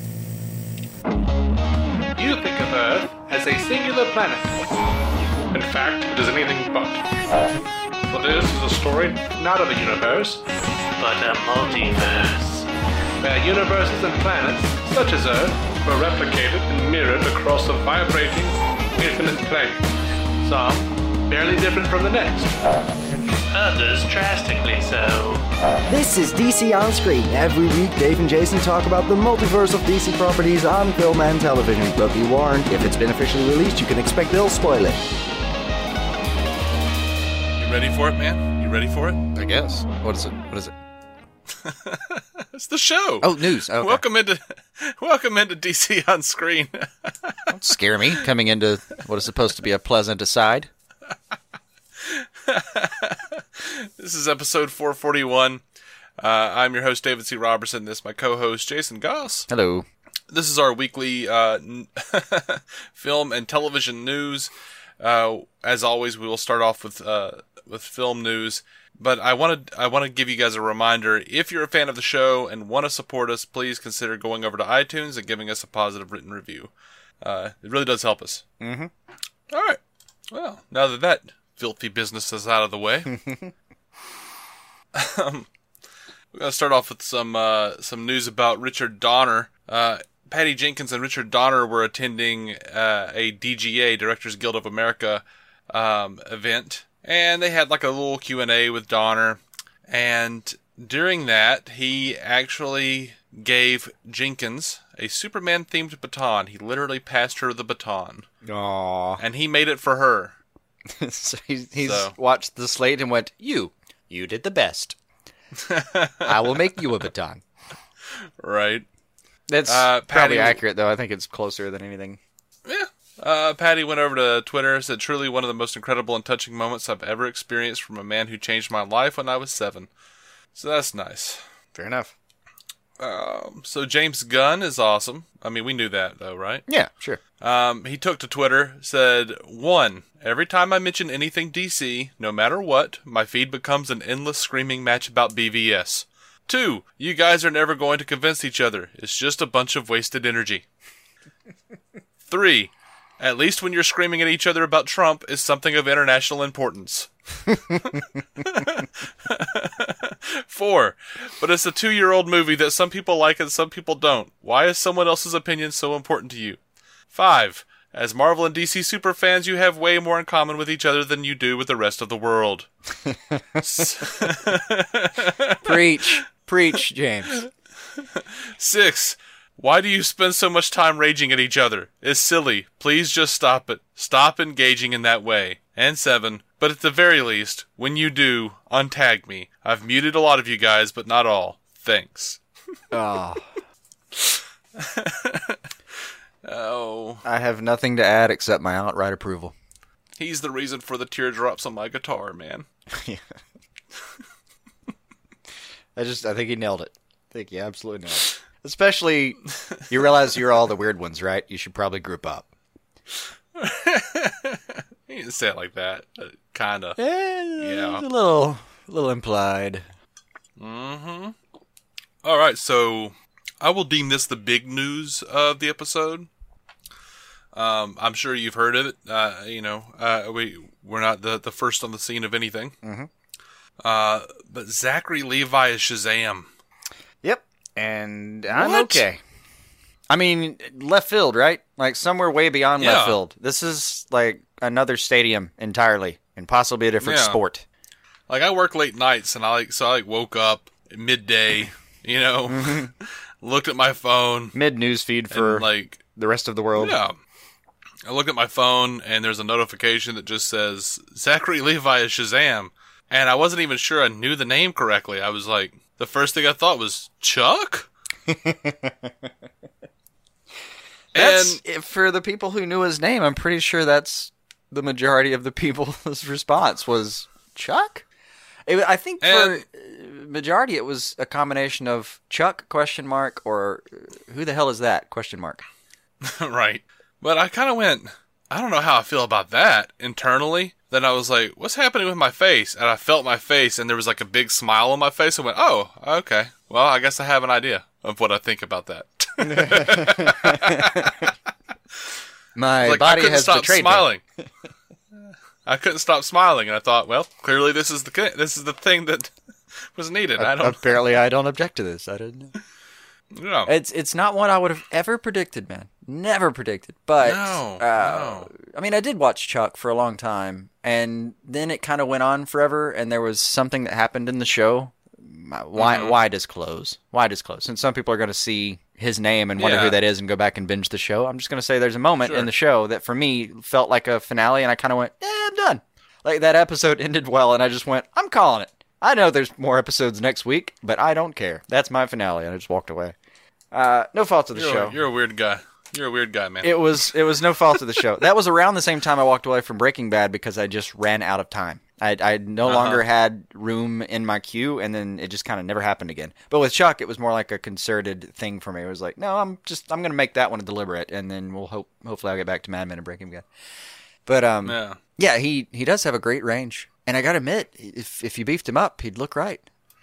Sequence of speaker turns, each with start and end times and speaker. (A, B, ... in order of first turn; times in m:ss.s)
0:02.2-0:04.7 A
0:05.5-0:07.0 A
0:08.1-0:10.4 A
0:11.0-0:12.6 B
0:13.2-0:19.8 A
0:20.4-0:22.6 A
0:23.5-0:25.4 B
0:25.8-0:35.0 C
0:37.6-0:39.2 D
0:39.3-0:40.8 E
0:41.6-0:47.5 D
0:43.2-0:44.0 E
0:47.5-0:50.7 E
0:52.0-0:55.6 D
0:56.2-0:59.5 D
0:59.5-0:59.8 E
1:00.3-1:18.4 D
1:18.6-1:18.9 E
1:19.5-1:19.8 D
1:20.3-1:23.1 D
1:23.1-1:23.5 E
1:24.9-1:25.5 D
1:26.3-1:48.2 D
1:48.4-1:49.2 E
1:49.2-1:50.3 D
1:50.9-1:55.0 E
1:51.8-1:52.1 D
1:55.6-1:56.4 D
1:56.2-1:57.4 E
1:58.4-1:58.8 D
1:59.5-2:02.2 E
1:59.7-2:00.6 D
2:02.6-2:09.9 D
2:10.5-2:11.4 D
2:11.7-2:12.1 E
2:13.0-2:16.6 D
2:16.7-2:17.2 E
2:17.4-2:30.6 D
2:32.3-2:37.1 D
2:37.8-2:46.6 D
2:47.1-2:52.7 D
2:53.6-2:56.2 D
2:55.6-2:57.4 E
2:58.2-3:12.4 D
3:12.9-3:13.4 E
3:14.2-3:15.6 D
3:16.4-3:17.2 D
3:17.2-3:19.5 E
3:20.2-3:22.6 D
3:22.9-3:23.2 E
3:26.0-3:32.5 E
3:33.6-3:37.0 D
3:37.0-3:39.8 E
3:37.6-3:38.0 D
3:40.6-3:41.4 D
3:42.2-3:46.3 D
3:47.5-3:52.7 D
3:52.8-3:53.1 E
3:53.8-3:56.5 D
3:57.2-3:59.2 E
3:58.5-3:59.0 D
4:00.1-4:07.6 E
4:02.8-4:03.2 D
4:07.0-4:07.4 D
4:08.3-4:14.6 D
4:12.5-4:12.9 E
4:14.5-4:17.0 E
4:15.3-4:16.0 D
4:16.8-4:17.1 D
4:18.0-4:27.9 D
4:28.3-4:29.3 E
4:31.1-4:31.6 D
4:31.1-4:38.0 E
4:38.6-4:45.6 E
4:39.2-4:39.6 D
4:46.2-5:01.3 D
4:59.4-5:01.3 E
5:02.6-5:04.1 E
5:02.8-5:04.2 D
5:05.6-5:09.3 D
5:09.9-5:11.2 D
5:10.4-5:12.5 E
5:13.3-5:13.7 D
5:13.6-5:43.1 E
5:17.2-5:18.5 D
5:25.8-5:26.2 D
5:29.6-5:30.0 D
5:43.7-5:45.0 E
5:44.5-5:47.0 D
5:46.6-6:03.4 E
5:52.6-5:53.0 D
6:04.2-6:09.6 E
6:04.6-6:05.0 D